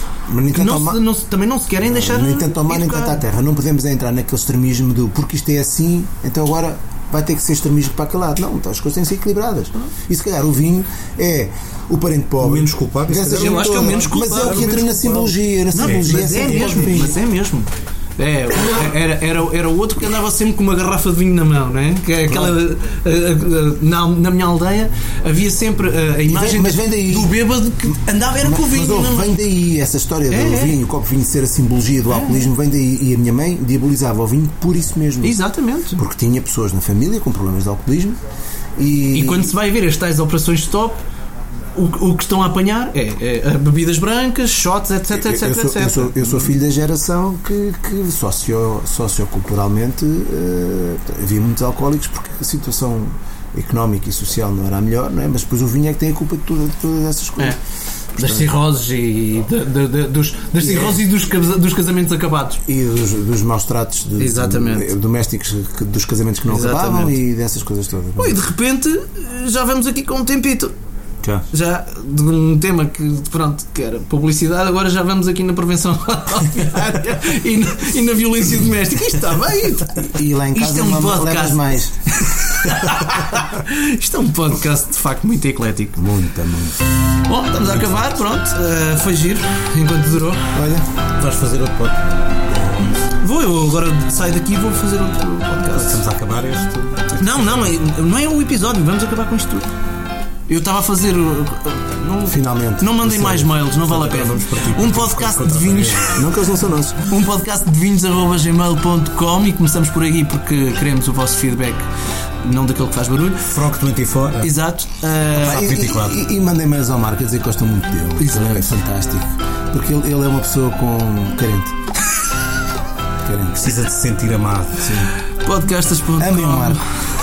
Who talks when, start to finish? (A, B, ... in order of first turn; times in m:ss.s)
0:00.3-0:01.0 A
0:00.5-0:03.2 B
0:01.8-0:17.2 A
0:12.4-0:17.1 C
0:13.3-0:14.8 B
0:15.7-0:29.3 B
0:22.3-0:22.6 A
0:26.3-0:27.3 A
0:28.4-0:35.4 A
0:30.3-0:30.8 B
0:32.1-0:32.5 B
0:35.2-0:36.0 B
0:36.0-0:38.2 A
0:38.8-0:39.5 A
0:39.1-0:41.0 B
0:41.7-0:46.5 B
0:45.1-0:57.6 A
0:58.1-0:58.5 A
0:58.2-1:02.6 B
1:00.6-1:01.0 A
1:02.6-1:08.4 A
1:04.2-1:04.9 B
1:06.5-1:07.2 B
1:08.2-1:10.7 B
1:11.5-1:26.0 B
1:20.0-1:21.9 A
1:26.0-1:26.8 A
1:27.2-1:30.5 B
1:30.5-1:30.9 A
1:31.2-1:32.0 C
1:33.1-1:36.0 B
1:35.6-1:37.7 C
1:37.2-1:39.7 B
1:40.5-1:46.2 B
1:42.3-1:43.5 A
1:43.2-1:46.2 C
1:46.1-1:47.0 A
1:47.0-1:51.8 B
1:52.4-1:53.5 B
1:53.4-1:54.5 C
1:54.4-1:55.7 B
1:55.3-2:01.7 A
1:55.4-1:56.2 C
1:58.2-1:58.7 B
2:03.2-2:03.8 A
2:03.6-2:04.9 C
2:04.8-2:05.1 A
2:05.4-2:06.8 B
2:06.2-2:06.8 A